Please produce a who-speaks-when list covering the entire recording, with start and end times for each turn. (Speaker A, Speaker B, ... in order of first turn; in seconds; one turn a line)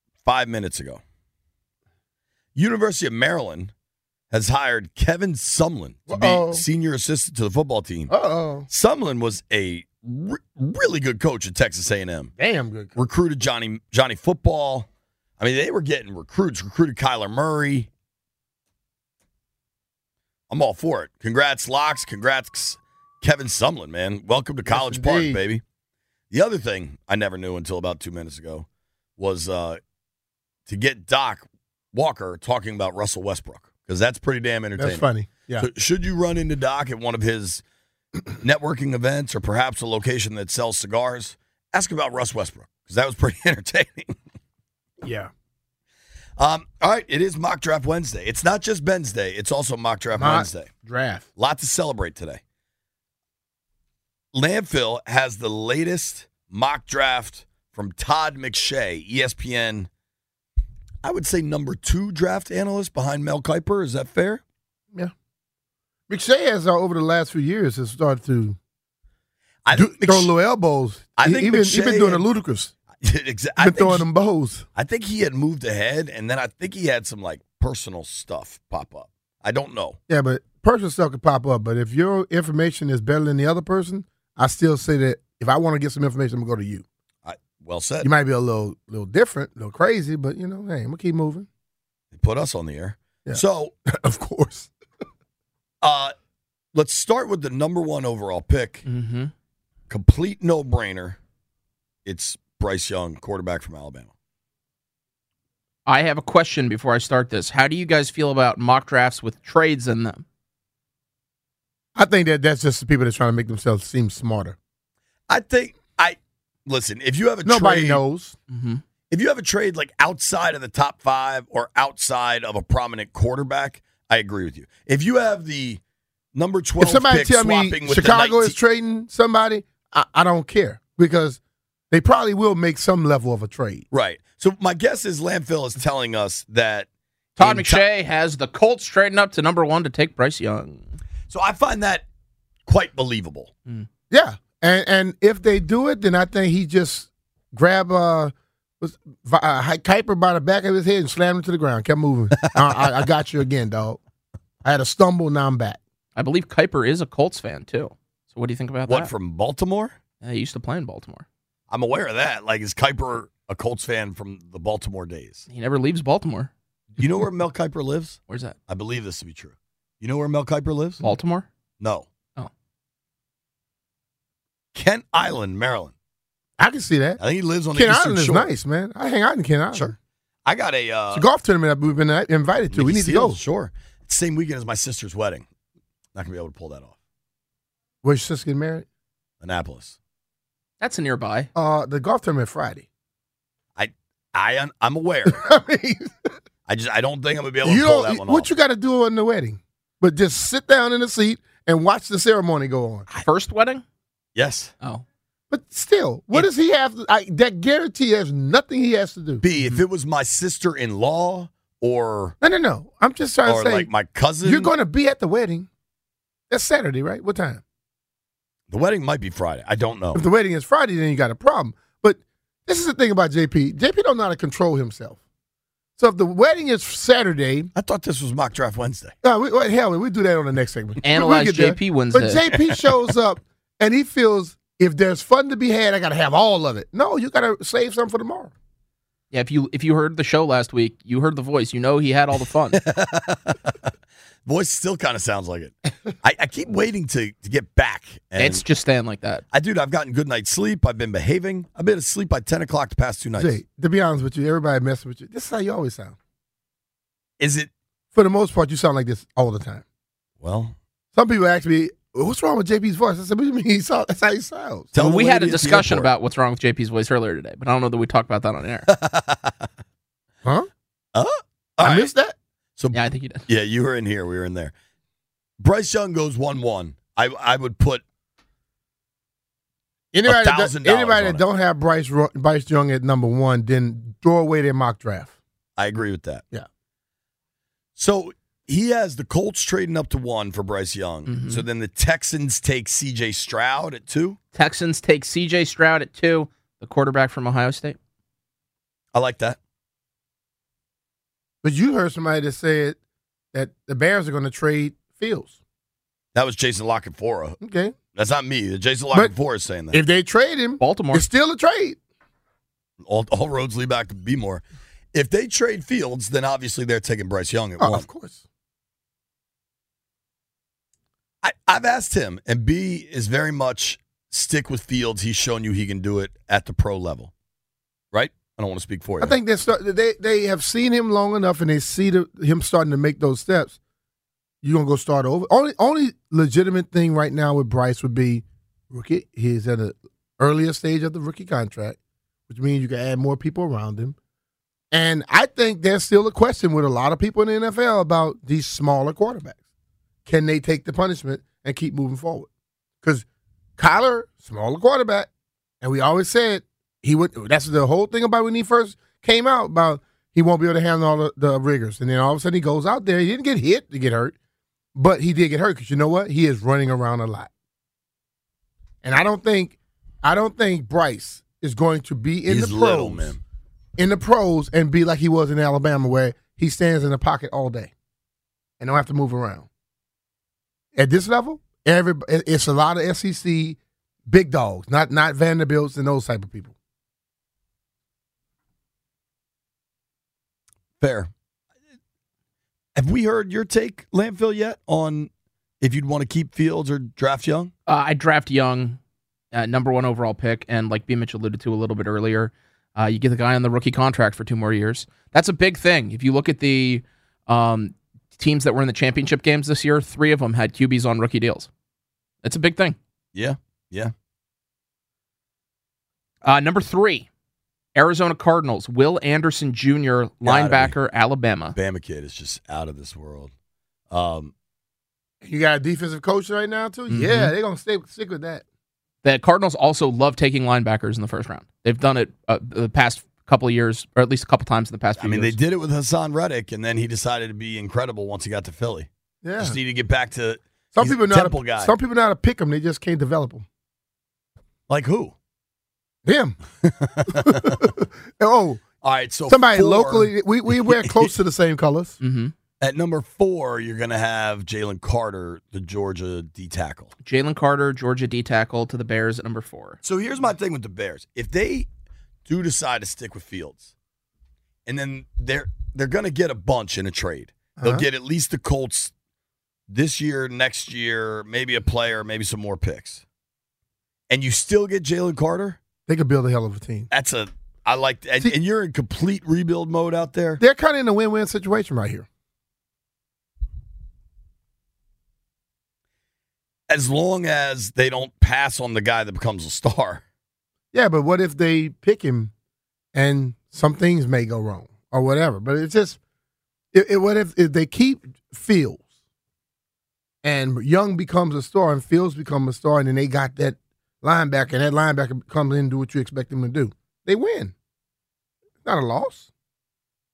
Speaker A: 0.2-1.0
Speaker A: 2.5-3.7
Speaker A: 4.3-8.1
Speaker B: 6.1-6.6
Speaker B: 8.1-8.7
Speaker A: 8.7-12.3
Speaker B: 12.4-12.9
Speaker A: 12.9-14.9
Speaker A: 15.4-17.9
Speaker A: 20.5-25.6
Speaker B: 24.6-25.4
Speaker A: 26.3-28.6
Speaker A: 29.2-29.8
Speaker A: 30.7-37.6
Speaker B: 34.8-35.7
Speaker A: 38.3-44.1
Speaker B: 45.0-45.3
Speaker A: 46.4-50.7
Speaker B: 50.1-51.2
Speaker A: 51.4-52.4
Speaker A: 54.3-59.9
Speaker A: 61.0-64.4
Speaker B: 66.1-68.6
Speaker A: 69.6-70.3
Speaker B: 69.7-72.7
Speaker A: 71.2-72.2
Speaker A: 73.0-74.0
Speaker B: 73.6-74.7
Speaker A: 74.7-80.0
Speaker B: 80.1-86.8
Speaker A: 87.2-88.1
Speaker B: 88.0-91.5
Speaker A: 92.1-93.7
Speaker B: 93.2-94.7
Speaker A: 95.8-96.1
Speaker A: 96.7-98.8
Speaker C: 98.8-99.3
Speaker A: 99.9-101.2
Speaker A: 102.0-104.1
Speaker C: 105.8-110.2
Speaker B: 111.9-114.6
Speaker A: 115.3-118.0
Speaker B: 117.4-118.4
Speaker C: 118.5-118.8
Speaker A: 119.1-125.8
Speaker A: 126.3-128.6
Speaker B: 126.8-131.4
Speaker B: 131.9-133.8
Speaker A: 133.9-137.8
Speaker C: 137.4-140.9
Speaker A: 141.3-142.1
Speaker A: 142.7-143.5
Speaker B: 144.1-154.0
Speaker A: 152.4-153.0
Speaker B: 154.6-155.8
Speaker C: 156.2-159.1
Speaker A: 158.9-159.9
Speaker C: 160.2-161.2
Speaker A: 161.7-165.4
Speaker C: 165.5-166.5
Speaker A: 167.0-171.0
Speaker C: 168.3-168.6
Speaker C: 171.0-171.4
Speaker A: 171.8-172.1
Speaker A: 174.7-175.9
Speaker B: 176.6-177.2
Speaker A: 177.2-178.5
Speaker B: 177.7-179.9
Speaker A: 179.7-181.2
Speaker B: 181.1-183.4
Speaker A: 182.7-185.4
Speaker A: 186.1-186.9
Speaker B: 188.0-188.8
Speaker A: 189.4-189.9
Speaker C: 190.8-191.5
Speaker B: 191.5-192.8
Speaker A: 193.8-195.4
Speaker B: 195.2-196.1
Speaker A: 196.7-198.5
Speaker B: 197.6-203.1
Speaker C: 203.1-203.8
Speaker A: 204.3-204.7
Speaker B: 205.5-209.4
Speaker A: 209.4-212.3
Speaker B: 212.4-213.9
Speaker A: 213.4-214.7
Speaker B: 214.4-215.7
Speaker B: 216.5-217.6
Speaker A: 218.7-220.2
Speaker B: 220.1-225.2
Speaker B: 226.0-227.7
Speaker A: 227.7-229.1
Speaker B: 229.2-238.5
Speaker C: 231.0-232.4
Speaker A: 232.5-232.9
Speaker C: 239.3-242.8
Speaker A: 242.7-243.9
Speaker A: 244.4-248.6
Speaker C: 248.4-249.4
Speaker A: 249.5-253.6
Speaker B: 253.4-256.1
Speaker A: 257.4-257.7
Speaker B: 258.1-259.8
Speaker A: 260.4-260.8
Speaker B: 261.1-264.9
Speaker A: 264.9-266.1
Speaker C: 265.0-268.9
Speaker A: 268.9-269.7
Speaker A: 271.1-272.1
Speaker B: 271.8-272.4
Speaker A: 272.8-274.7
Speaker C: 272.9-273.4
Speaker A: 275.6-278.0
Speaker B: 280.1-285.3
Speaker A: 280.2-281.4
Speaker A: 285.8-286.4
Speaker A: 287.9-294.4
Speaker C: 291.3-291.6
Speaker C: 294.5-298.0
Speaker A: 299.1-299.6
Speaker B: 301.6-303.0
Speaker B: 303.5-305.6
Speaker A: 306.3-307.6
Speaker B: 307.6-307.9
Speaker A: 308.1-310.0
Speaker B: 309.9-312.0
Speaker C: 310.8-311.2
Speaker A: 313.0-314.6
Speaker A: 315.1-318.1
Speaker B: 317.8-318.4
Speaker A: 321.4-327.3
Speaker A: 328.1-329.4
Speaker B: 329.2-333.8
Speaker B: 334.6-342.0
Speaker B: 342.5-344.1
Speaker B: 344.9-349.6
Speaker B: 350.2-352.5
Speaker B: 353.8-355.3
Speaker B: 355.8-364.3
Speaker B: 364.9-367.5
Speaker B: 369.0-373.4
Speaker A: 372.5-373.4
Speaker B: 374.0-377.9
Speaker B: 378.8-379.7
Speaker B: 380.9-386.7
Speaker A: 391.0-391.3
Speaker A: 392.9-395.3
Speaker A: 395.8-397.7
Speaker C: 397.9-399.0
Speaker C: 399.5-411.7
Speaker C: 412.4-413.0
Speaker A: 413.3-414.1
Speaker C: 416.4-417.2
Speaker C: 417.9-421.8
Speaker A: 420.4-420.9
Speaker A: 421.7-423.5
Speaker A: 424.1-424.5
Speaker B: 425.4-428.6
Speaker C: 427.1-427.5
Speaker C: 429.2-435.6
Speaker A: 435.2-441.9
Speaker B: 439.4-439.8
Speaker B: 440.9-443.6
Speaker A: 444.9-445.3
Speaker B: 446.2-446.6
Speaker A: 446.8-447.9
Speaker B: 447.2-448.8
Speaker A: 449.0-451.3
Speaker B: 449.5-452.2
Speaker C: 452.2-452.5
Speaker A: 452.8-457.1
Speaker C: 457.2-460.0
Speaker A: 460.0-461.9
Speaker A: 462.4-463.9
Speaker A: 464.9-469.1
Speaker B: 467.8-468.1
Speaker A: 469.9-473.2
Speaker A: 474.3-475.8
Speaker B: 476.1-477.1
Speaker A: 477.1-480.6
Speaker B: 480.6-482.2
Speaker A: 486.9-490.2
Speaker B: 490.9-492.5
Speaker B: 493.1-496.2
Speaker B: 496.9-499.0
Speaker B: 500.4-507.7
Speaker B: 508.8-509.5